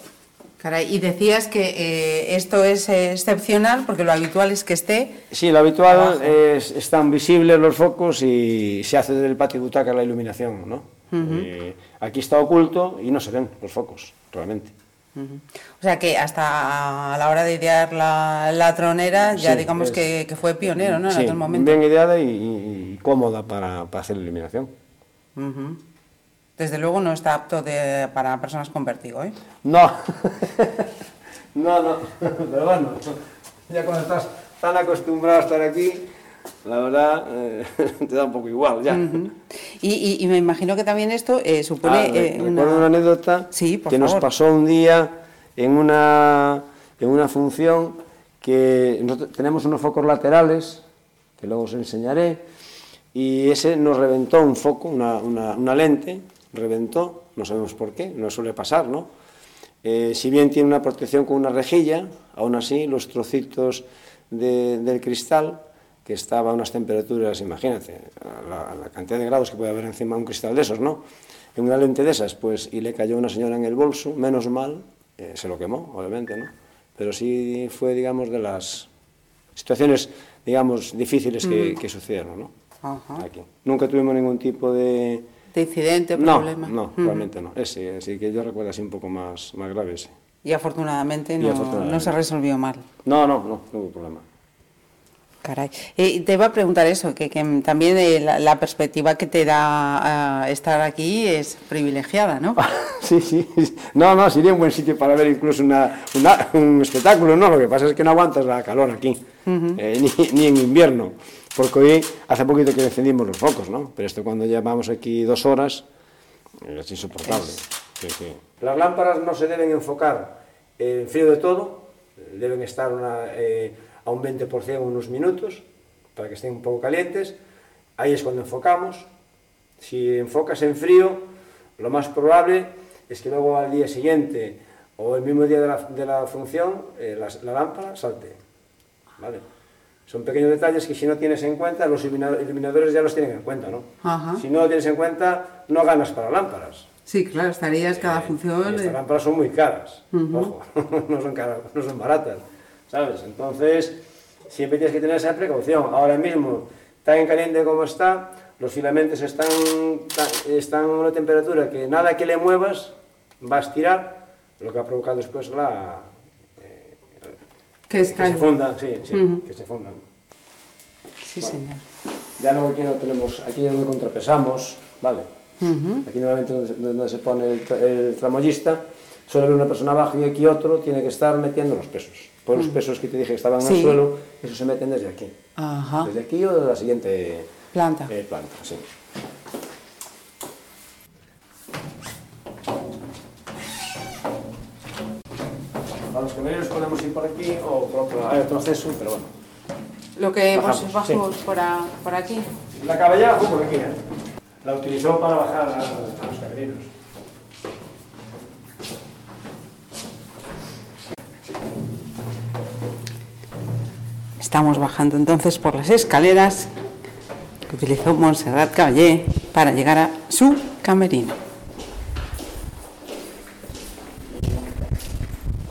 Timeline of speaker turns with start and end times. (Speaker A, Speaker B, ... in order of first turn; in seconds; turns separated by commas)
Speaker A: 0.6-5.2, Speaker B: 5.3-14.7, Speaker A: 5.9-6.3, Speaker A: 11.1-11.5, Speaker A: 15.2-21.8, Speaker B: 19.3-20.1, Speaker B: 20.6-24.7, Speaker A: 25.4-25.8, Speaker A: 26.6-29.4, Speaker B: 29.6-30.9, Speaker B: 31.5-36.1, Speaker B: 36.6-39.2, Speaker A: 38.9-42.9, Speaker B: 41.8-50.8, Speaker A: 43.5-44.3, Speaker B: 51.4-52.4, Speaker B: 53.1-59.1, Speaker B: 59.8-71.0, Speaker B: 71.5-78.9, Speaker B: 79.6-82.5, Speaker A: 81.4-81.8, Speaker A: 82.8-83.3, Speaker B: 83.2-85.3, Speaker A: 85.5-87.3, Speaker B: 86.2-90.1, Speaker A: 90.4-92.8, Speaker B: 91.4-92.2, Speaker B: 93.0-94.2, Speaker A: 95.4-102.6, Speaker B: 102.6-109.2, Speaker A: 109.5-109.8, Speaker B: 109.8-115.9, Speaker B: 116.6-127.4, Speaker B: 128.0-129.1, Speaker B: 129.8-138.4, Speaker B: 139.2-139.4, Speaker B: 140.1-146.9, Speaker A: 144.0-144.4, Speaker A: 147.1-149.0, Speaker B: 147.9-167.4, Speaker A: 150.1-150.5, Speaker A: 167.9-168.5, Speaker B: 168.0-170.0, Speaker A: 169.1-169.4, Speaker A: 171.2-171.8, Speaker B: 172.4-175.3, Speaker A: 175.6-176.1, Speaker B: 176.0-185.3, Speaker A: 183.6-184.0, Speaker A: 185.6-186.1, Speaker B: 186.0-187.5, Speaker A: 187.7-188.1, Speaker B: 188.1-188.8, Speaker B: 196.1-199.3, Speaker A: 200.2-202.5, Speaker B: 200.5-201.2, Speaker B: 202.7-204.0, Speaker B: 204.6-206.9, Speaker A: 214.4-216.7, Speaker A: 217.7-221.4